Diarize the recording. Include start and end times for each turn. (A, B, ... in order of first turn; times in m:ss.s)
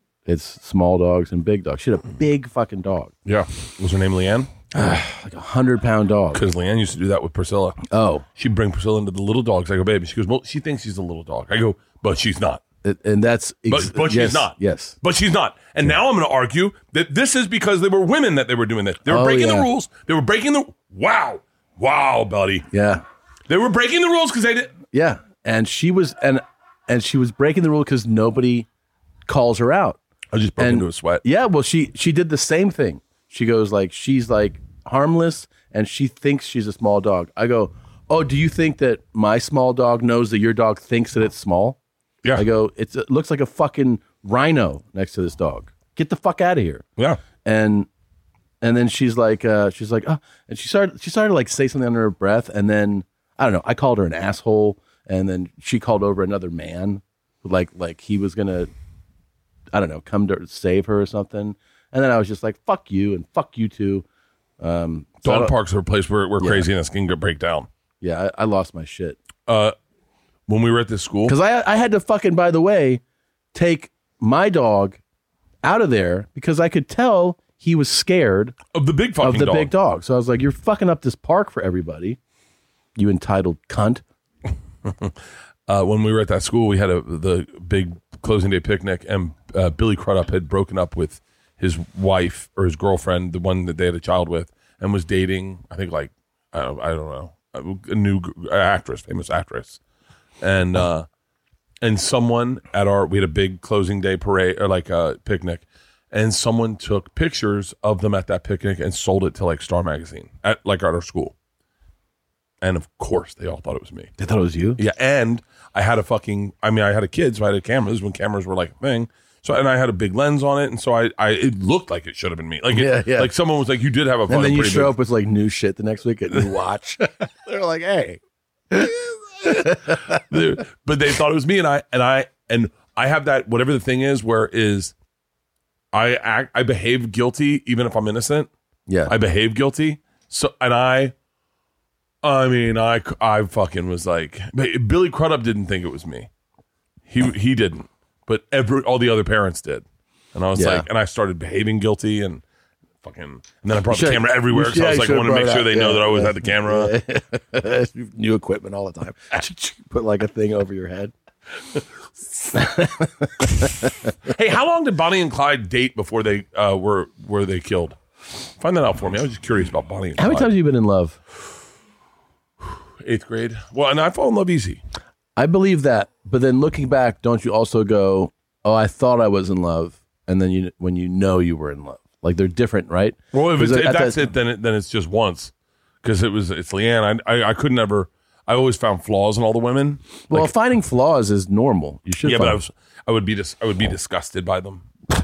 0:00.2-0:03.1 A
0:03.2-0:04.6 B
0:04.7-0:06.4 A
0:06.3-0:07.8 B
0:07.8-0:08.2 A
0:08.3-0:12.6 B
0:12.8-0:15.0 A
0:13.7-0:22.6 B
0:19.1-0:19.7 A
0:22.7-0:23.0 A
0:23.5-0:24.7 B
0:24.9-0:28.7 A
0:29.2-0:30.0 A
0:30.3-0:31.2 B
0:30.6-0:41.8 A
0:42.3-0:46.8 A
0:47.4-0:47.9 A
0:48.6-0:58.7 A
0:59.7-1:04.0 A
1:04.6-1:05.5 A
1:05.2-1:07.7 B
1:06.4-1:06.7 A
1:08.0-1:09.2 A
1:09.5-1:09.7 B
1:10.5-1:11.4 B
1:11.2-1:13.0 A
1:13.5-1:15.0 A
1:15.6-1:18.6 A
1:18.7-1:19.7 B
1:19.2-1:22.2 A
1:23.0-1:24.0 A
1:24.8-1:25.1 B
1:25.7-1:39.8 B
1:40.4-1:41.1 B
1:41.8-1:51.3 B
1:52.6-1:54.1 B
1:54.2-1:54.8 A
1:54.8-2:05.0 B
2:02.7-2:03.3 A
2:04.3-2:10.2 A
2:09.5-2:14.9 B
2:15.9-2:18.5 B
2:18.9-2:19.1 A
2:19.1-2:21.1 B
2:22.2-2:26.3 B
2:27.1-2:32.4 B
2:30.6-2:30.9 A
2:33.0-2:37.0 B
2:33.9-2:41.1 A
2:42.3-2:44.1 A
2:44.2-2:48.0 B
2:48.6-2:50.5 B
2:50.2-2:51.2 A
2:52.6-2:54.8 B
2:55.4-3:04.3 A
3:03.3-3:05.5 B
3:06.0-3:10.5 B
3:10.3-3:12.6 A
3:12.2-3:14.9 B